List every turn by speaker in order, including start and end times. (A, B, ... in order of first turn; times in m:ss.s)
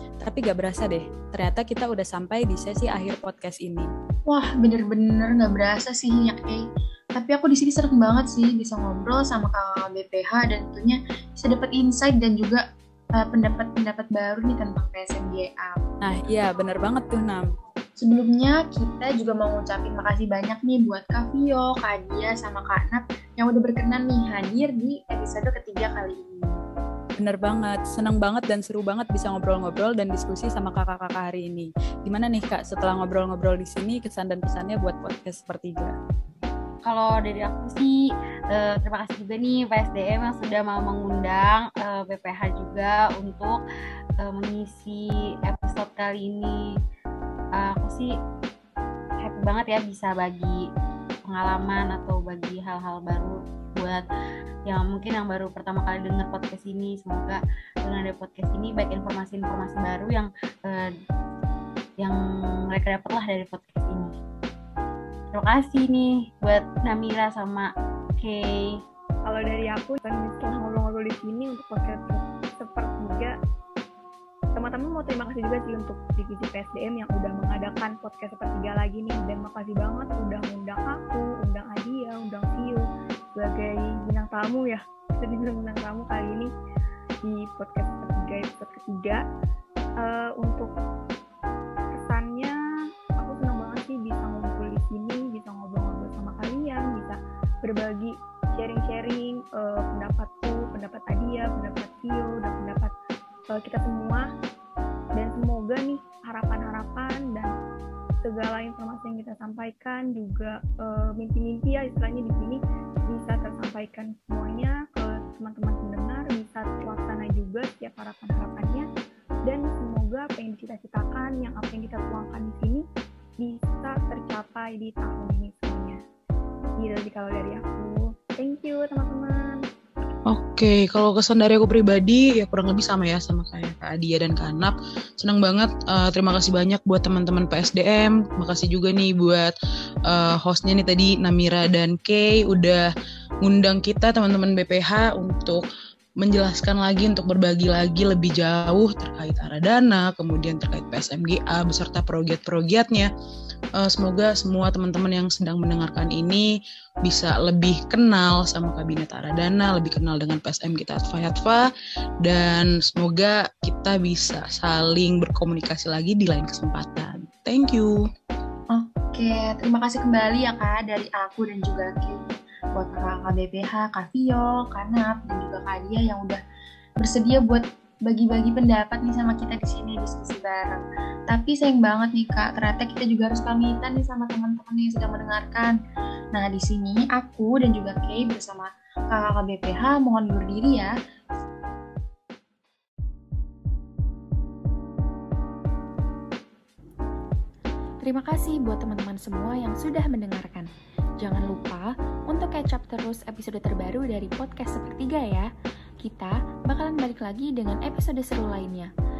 0:00.2-0:03.9 A
0:04.3-0:06.6 B
0:07.2-0:12.6 B
0:13.2-0:15.8 B
0:16.0-0:17.5 A
0:18.0-0:26.6 B
0:27.2-0:35.9 A
0:36.8-0:38.0 C
0:38.5-0:43.6 C
0:44.2-0:46.6 C
0:47.6-0:48.1 C
0:49.2-0:50.6 C
0:51.2-0:54.0 C
0:54.6-1:00.9 C
1:02.7-1:04.1 C
1:05.3-1:07.7 C
1:08.2-1:08.8 C
1:09.2-1:13.3 D
1:14.6-1:26.5 D
1:27.2-1:29.2 D
1:30.0-1:30.7 D
1:31.9-1:32.5 D
1:33.2-1:42.9 D
1:43.5-1:44.3 D
1:45.2-1:47.5 D
1:48.2-1:58.8 D
1:59.4-2:02.8 D
2:03.4-2:06.0 D
2:06.8-2:09.6 D
2:10.3-2:19.5 E
2:20.1-2:22.9 E
2:23.4-2:25.6 E
2:26.2-2:33.1 E
2:33.8-2:36.5 E
2:37.0-2:41.7 E
2:42.2-2:48.0 E
2:48.7-2:56.4 B
2:57.0-3:05.7 B
3:06.3-3:10.9 B
3:18.0-3:20.7 F
3:21.2-3:25.5 F
3:26.0-3:28.9 F